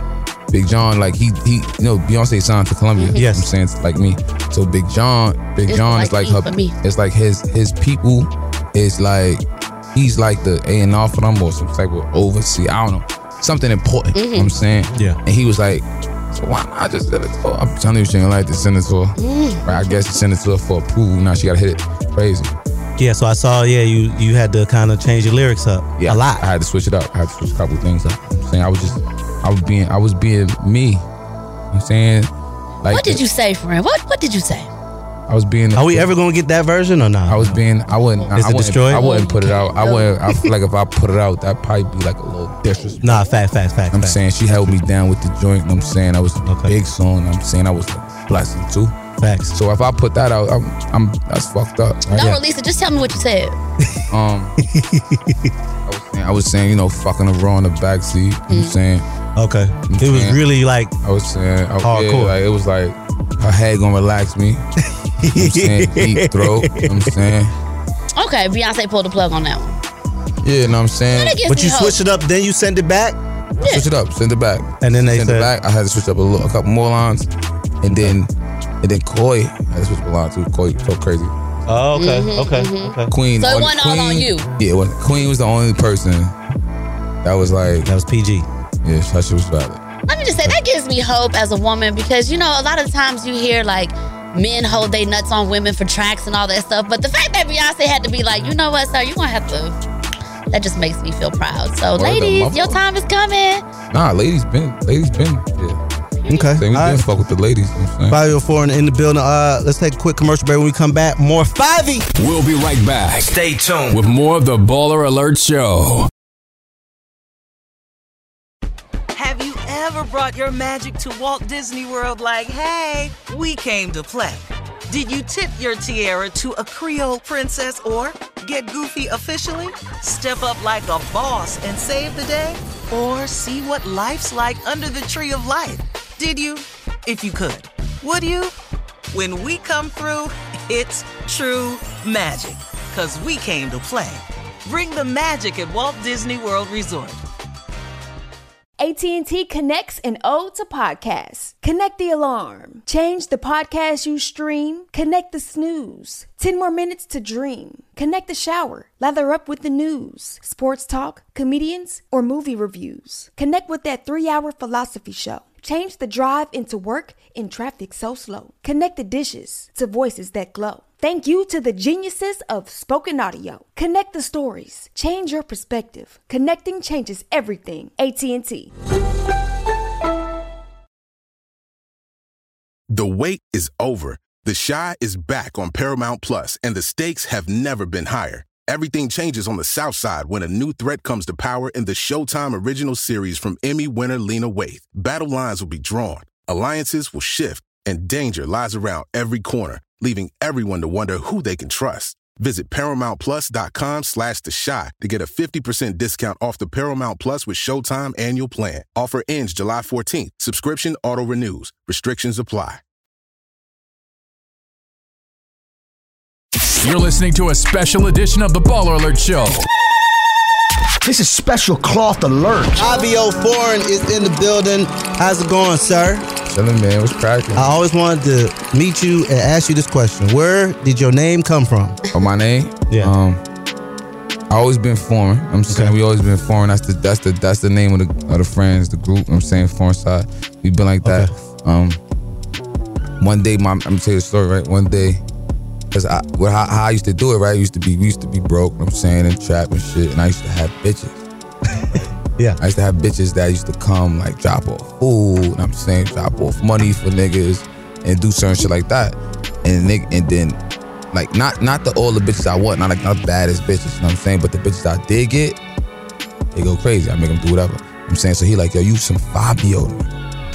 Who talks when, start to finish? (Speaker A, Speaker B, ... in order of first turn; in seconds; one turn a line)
Speaker A: 0.5-9.4
Speaker B: 3.0-3.2
Speaker C: 3.2-3.5
Speaker B: 5.7-6.7
Speaker A: 9.9-22.5
Speaker B: 14.1-14.6
Speaker B: 19.2-20.0
Speaker C: 23.0-26.4
Speaker A: 26.0-31.0
Speaker A: 31.7-32.3
Speaker A: 32.8-33.2
Speaker B: 32.9-34.7
Speaker A: 35.3-36.1
Speaker C: 35.8-37.6
Speaker A: 37.3-43.3
Speaker C: 38.4-39.0
Speaker B: 38.9-40.1
Speaker C: 43.0-44.2
Speaker A: 43.9-48.9
Speaker C: 46.5-46.7
Speaker C: 49.2-49.5
Speaker A: 49.5-52.3
Speaker B: 52.1-53.5
Speaker A: 54.1-54.6
Speaker C: 54.7-55.4
Speaker A: 55.9-59.0
Speaker B: 58.5-58.8
Speaker C: 59.4-60.9
Speaker A: 59.9-60.4
Speaker A: 61.0-64.6
Speaker C: 61.8-62.3
Speaker C: 65.2-67.1
Speaker A: 65.3-67.5
Speaker B: 68.2-69.8
Speaker A: 70.4-71.4
Speaker B: 71.1-72.0
Speaker C: 71.5-73.2
Speaker B: 73.6-73.9
Speaker A: 73.6-77.3
Speaker C: 74.8-75.5
Speaker A: 77.8-78.3
Speaker A: 78.8-81.3
Speaker C: 81.7-83.1
Speaker B: 81.9-84.5
Speaker A: 83.1-86.3
Speaker A: 87.2-87.9
Speaker C: 87.8-88.5
Speaker A: 88.8-89.8
Speaker B: 90.1-99.8
Speaker B: 100.5-103.6
Speaker A: 102.0-102.8
Speaker A: 103.9-105.8
Speaker B: 106.2-106.6
Speaker C: 106.3-107.0
Speaker A: 106.5-108.2
Speaker C: 108.1-112.1
Speaker D: 112.2-116.1
Speaker E: 113.3-114.0
Speaker F: 119.1-138.5
Speaker F: 139.1-147.2
Speaker G: 148.8-178.7
Speaker H: 182.9-212.8
Speaker D: 216.8-219.7
Speaker E: 221.0-222.8
Speaker C: 222.8-226.3
Speaker B: 222.8-223.1
Speaker A: 226.5-227.8
Speaker C: 227.6-232.0
Speaker A: 232.1-233.4
Speaker A: 234.5-242.0
Speaker C: 235.7-235.9
Speaker C: 241.0-241.3
Speaker A: 243.2-245.2
Speaker A: 245.9-251.2
Speaker A: 252.6-260.6
Speaker A: 261.1-265.6
Speaker A: 266.5-270.1